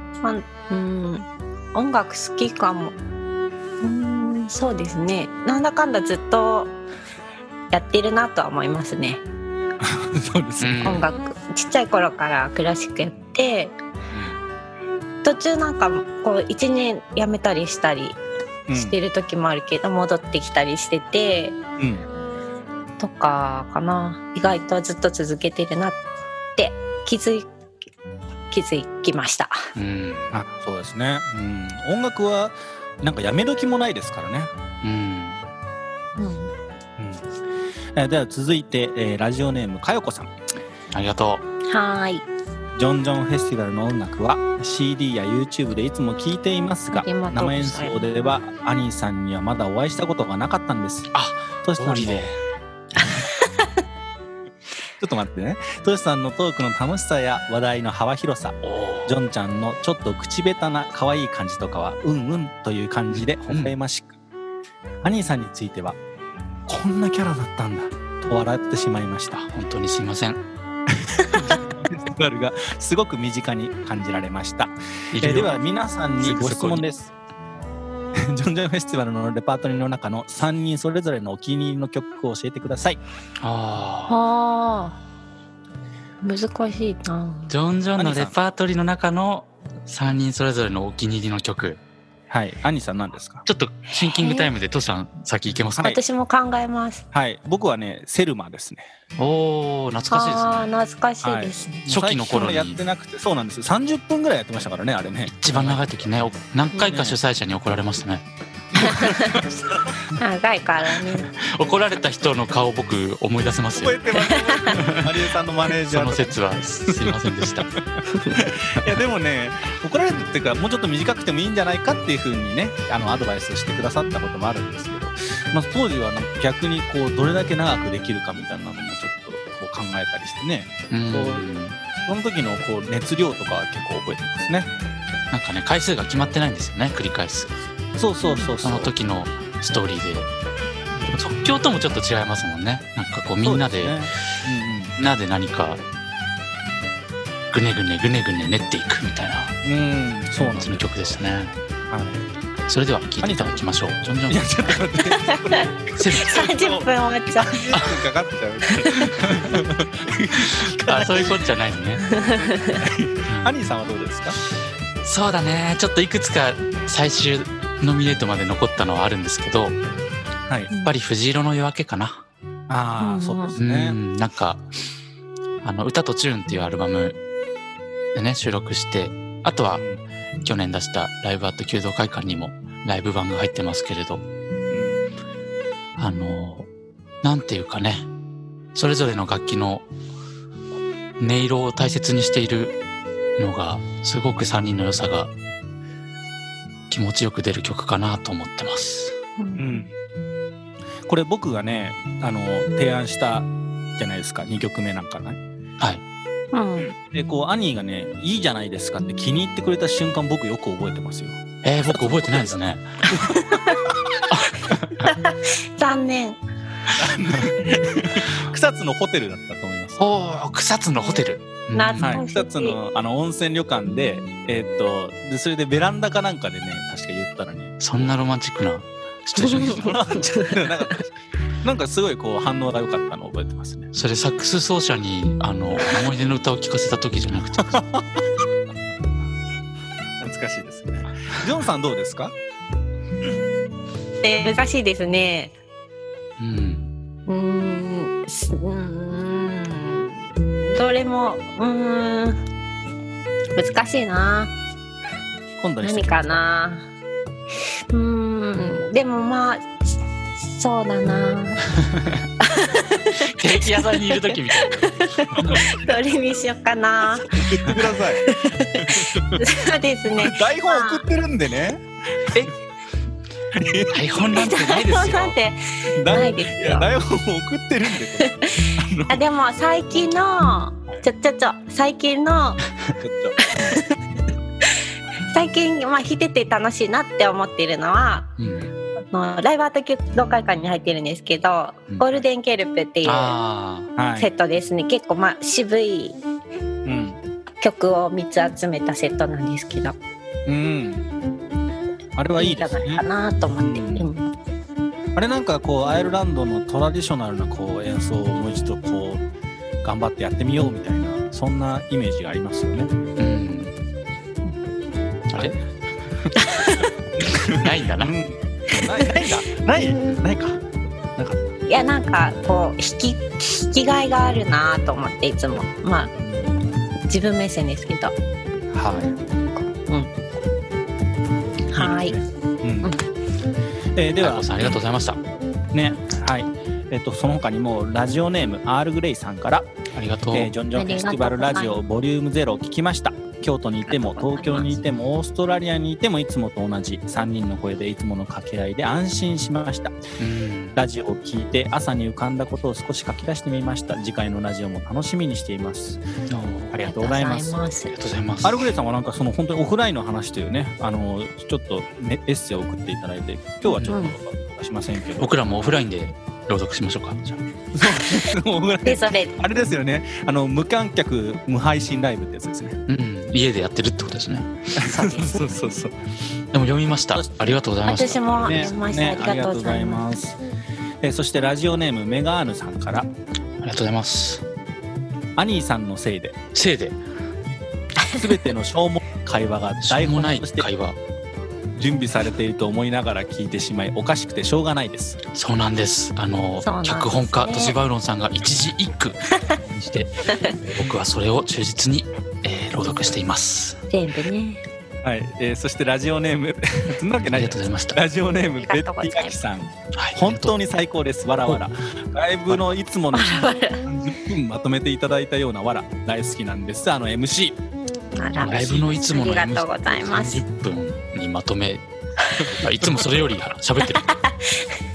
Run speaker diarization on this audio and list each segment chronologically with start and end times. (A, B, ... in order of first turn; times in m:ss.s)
0:00.2-0:03.0 A
0:03.8-0:06.7 A
0:07.7-0:09.2 A
0:09.8-0:11.0 B
0:10.6-0:11.1 C
0:10.8-0:13.8 A
0:15.2-0:18.2 A
0:18.7-0:19.0 B
0:18.7-0:21.6 A
0:21.8-0:22.0 B
0:23.0-0:26.0 A
0:26.6-0:27.5 A
0:28.5-0:29.6 A
0:29.7-0:30.3 C
0:30.3-0:34.5 B
0:34.8-0:35.4 C
0:36.2-0:36.5 A
0:37.0-0:37.2 B
0:37.9-0:40.3 B
0:40.9-0:41.4 C
0:41.6-0:42.3 A
0:42.7-0:51.1 B
0:46.9-0:48.1 A
0:51.1-0:52.3 C
0:51.6-0:52.3 B
0:55.0-1:04.1 B
0:58.6-0:59.1 C
1:03.1-1:03.7 C
1:05.0-1:06.0 B
1:06.7-1:09.5 B
1:09.5-1:10.4 C
1:11.0-1:17.1 B
1:15.1-1:15.6 C
1:16.2-1:16.8 C
1:18.2-1:23.0 B
1:23.4-1:24.2 C
1:24.1-1:25.0 A
1:26.2-1:27.5 A
1:27.5-1:31.8 C
1:28.0-1:28.4 B
1:32.3-1:33.4 B
1:33.4-1:35.9 C
1:33.9-1:34.5 A
1:35.8-1:37.0 A
1:37.1-1:38.9 B
1:39.2-1:40.7 C
1:40.1-1:41.8 A
1:41.2-1:45.8 B
1:41.8-1:42.8 C
1:45.3-1:48.2 C
1:46.9-1:47.2 B
1:48.8-1:49.4 A
1:48.8-1:50.0 B
1:50.2-1:51.3 A
1:51.3-1:54.0 C
1:53.7-1:57.2 B
1:54.2-1:54.7 A
1:54.6-1:55.1 C
1:55.7-1:57.7 C
1:58.3-2:11.5 B
2:10.9-2:11.8 C
2:12.0-2:14.7 B
2:15.3-2:17.5 C
2:18.0-2:18.9 B
2:18.2-2:18.5 A
2:18.6-2:20.3 C
2:21.1-2:24.0 C
2:23.4-2:24.9 B
2:25.0-2:25.8 C
2:27.5-2:29.5 C
2:29.6-2:31.2 B
2:30.4-2:31.5 C
2:31.9-2:32.3 B
2:32.7-2:34.6 C
2:33.2-2:33.7 B
2:34.3-2:41.4 B
2:35.1-2:37.8 A
2:36.0-2:36.5 C
2:38.8-2:39.1 A
2:40.4-2:42.0 C
2:42.1-2:42.8 A
2:42.8-2:44.4 B
2:45.0-2:49.8 C
2:50.8-2:52.2 C
2:52.7-2:54.0 B
2:53.0-2:53.5 A
2:53.6-2:54.6 C
2:55.6-2:57.2 C
2:58.1-2:59.8 C
2:59.7-3:00.0 B
3:00.4-3:04.2 C
3:04.7-3:05.0 B
3:06.0-3:06.7 C
3:07.2-3:08.1 C
3:08.7-3:09.9 C
3:11.2-3:12.8 C
3:13.4-3:15.3 C
3:16.9-3:19.2 C
3:19.4-3:19.8 A
3:19.6-3:19.9 B
3:21.1-3:25.4 B
3:26.5-3:26.9 A
3:26.9-3:31.4 B
3:31.6-3:33.0 C
3:33.1-3:33.9 B
3:33.3-3:33.8 A
3:34.3-3:35.1 C
3:35.0-3:36.4 A
3:37.0-3:40.0 B
3:40.0-3:42.2 C
3:41.7-3:42.8 A
3:42.0-3:47.8 B
3:47.8-3:50.0 C
3:49.4-3:50.7 A
3:49.6-3:51.1 B
3:51.6-3:53.9 B
3:53.9-3:57.8 C
3:57.7-3:58.0 B
4:00.2-4:02.3 B
4:04.2-4:05.5 A
4:06.4-4:06.9 C
4:07.3-4:12.4 A
4:13.5-4:14.5 A
4:15.6-4:16.4 B
4:15.8-4:16.9 A
4:17.9-4:19.7 A
4:20.4-4:21.8 A
4:22.4-4:31.0 A
4:23.2-4:25.6 C
4:25.4-4:25.8 B
4:27.3-4:28.3 B
4:28.8-4:29.4 B
4:30.2-4:32.5 B
4:33.5-4:34.0 B
4:33.9-4:35.4 C
4:34.3-4:36.9 A
4:36.0-4:39.2 B
4:38.2-4:42.6 A
4:42.8-4:43.8 B
4:43.4-4:44.0 A
4:44.6-4:48.4 A
4:48.4-4:48.7 C
4:49.1-4:53.4 A
4:53.0-4:53.9 C
4:54.0-4:54.3 B
4:54.2-4:56.2 A
4:56.8-4:57.2 B
4:57.6-5:00.0 A
5:00.4-5:01.0 B
5:02.2-5:04.1 B
5:02.4-5:04.3 A
5:05.2-5:09.2 B
5:09.8-5:12.9 B
5:13.2-5:13.7 C
5:15.3-5:15.6 C
5:16.4-5:16.9 A
5:17.2-5:20.6 B
5:17.5-5:18.1 C
5:21.2-5:21.5 B
5:21.7-5:26.1 A
5:27.1-5:28.1 A
5:28.7-5:29.1 B
5:29.6-5:30.1 A
5:31.7-5:32.1 A
5:31.7-5:32.9 B
5:33.9-5:34.8 B
5:34.2-5:35.2 C
5:35.7-5:39.7 B
5:39.9-5:40.5 C
5:40.3-5:50.0 B
5:40.7-5:41.8 A
5:43.9-5:44.8 A
5:50.2-5:50.8 C
5:50.7-5:56.0 B
5:56.3-5:56.8 C
5:56.7-5:57.6 B
5:56.8-5:57.9 A
5:57.9-5:58.7 C
5:58.4-6:05.3 B
6:03.7-6:04.2 A
6:05.2-6:07.3 C
6:07.7-6:12.8 B
6:08.8-6:09.4 A
6:12.9-6:14.5 C
6:14.7-6:15.9 B
6:14.8-6:15.6 A
6:16.5-6:18.7 C
6:17.8-6:20.1 A
6:18.4-6:20.4 B
6:21.0-6:23.1 B
6:23.6-6:24.4 C
6:25.4-6:26.4 B
6:26.5-6:27.0 C
6:28.0-6:28.4 A
6:28.0-6:30.7 B
6:29.8-6:31.0 C
6:31.7-6:35.2 B
6:35.3-6:43.8 C
6:36.6-6:37.8 A
6:43.9-6:44.6 A
6:45.0-6:57.6 B
6:47.3-6:48.0 C
6:48.6-6:49.4 A
6:49.9-6:50.5 C
6:53.1-6:53.8 A
6:58.2-7:00.4 A
6:58.4-7:01.8 C
7:02.4-7:03.0 B
7:02.5-7:04.0 C
7:03.9-7:04.6 A